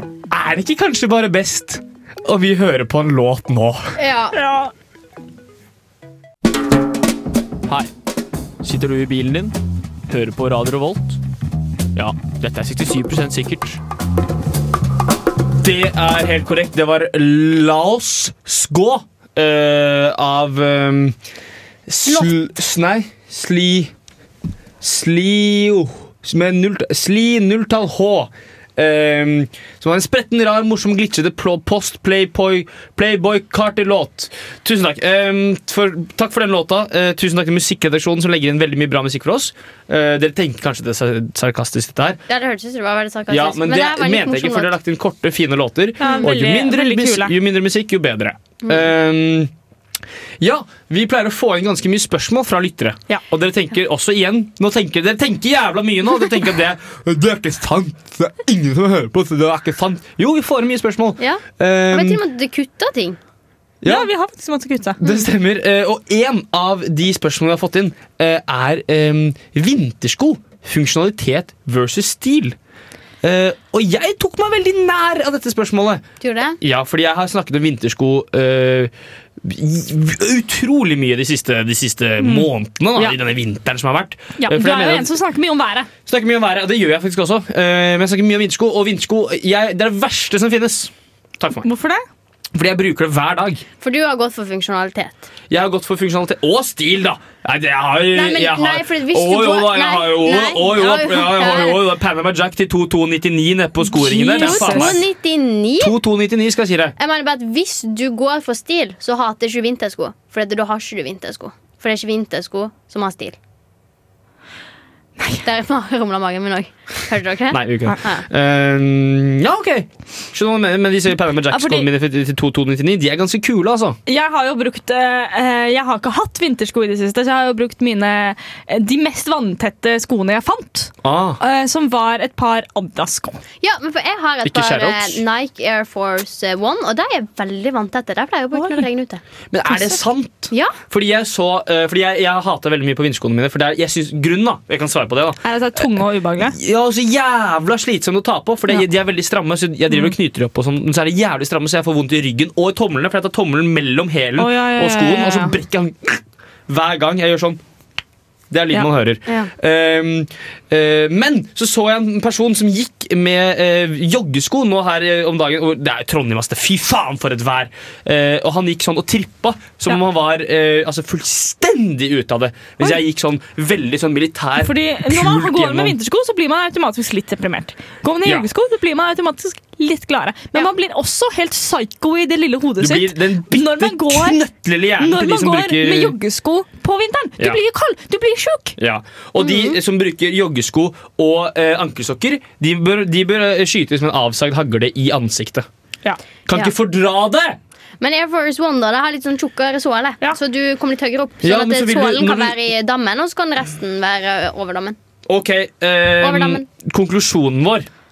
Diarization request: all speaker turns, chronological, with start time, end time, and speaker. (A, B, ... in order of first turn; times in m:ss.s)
0:00.3-0:04.0 A
0:04.0-0:04.4 B
0:04.3-0:04.7 C
0:08.6-0:09.6 A
0:10.1-0:11.2 A
0:11.9-0:13.8 A
0:15.5-0:21.2 A
0:21.9-0:23.9 A
0:24.8-0:42.2 A
0:42.3-0:44.8 B
0:43.3-0:49.5 A
0:46.0-0:47.3 C
0:50.4-1:02.2 A
1:01.2-1:03.2 B
1:03.8-1:04.1 A
1:03.8-1:05.0 C
1:05.0-1:12.6 A
1:13.2-1:16.0 A
1:16.2-1:16.6 B
1:16.6-1:25.1 A
1:22.2-1:23.2 C
1:24.4-1:25.9 C
1:26.0-1:31.7 A
1:31.6-1:32.0 C
1:32.5-1:33.6 A
1:33.8-1:35.2 B
1:35.5-1:45.0 A
1:38.1-1:41.8 B
1:43.9-1:45.0 C
1:44.4-1:46.0 B
1:45.8-1:46.9 A
1:47.0-1:53.4 B
1:55.4-1:58.2 B
1:57.5-2:04.0 A
2:01.5-2:01.9 C
2:04.1-2:13.4 C
2:11.0-2:11.4 A
2:13.6-2:19.2 B
2:14.4-2:15.2 A
2:18.5-2:18.8 C
2:19.5-2:25.9 A
2:19.7-2:20.0 C
2:20.5-2:20.8 B
2:25.4-2:26.6 C
2:26.4-2:37.6 A
2:34.4-2:35.6 C
2:38.5-2:56.0 A
2:54.6-3:04.4 C
3:02.8-3:06.2 A
3:05.0-3:08.8 C
3:08.8-3:15.7 A
3:09.4-3:09.8 B
3:16.4-3:17.6 A
3:18.0-3:25.0 B
3:21.4-3:22.6 A
3:25.2-3:27.9 A
3:26.2-3:26.6 B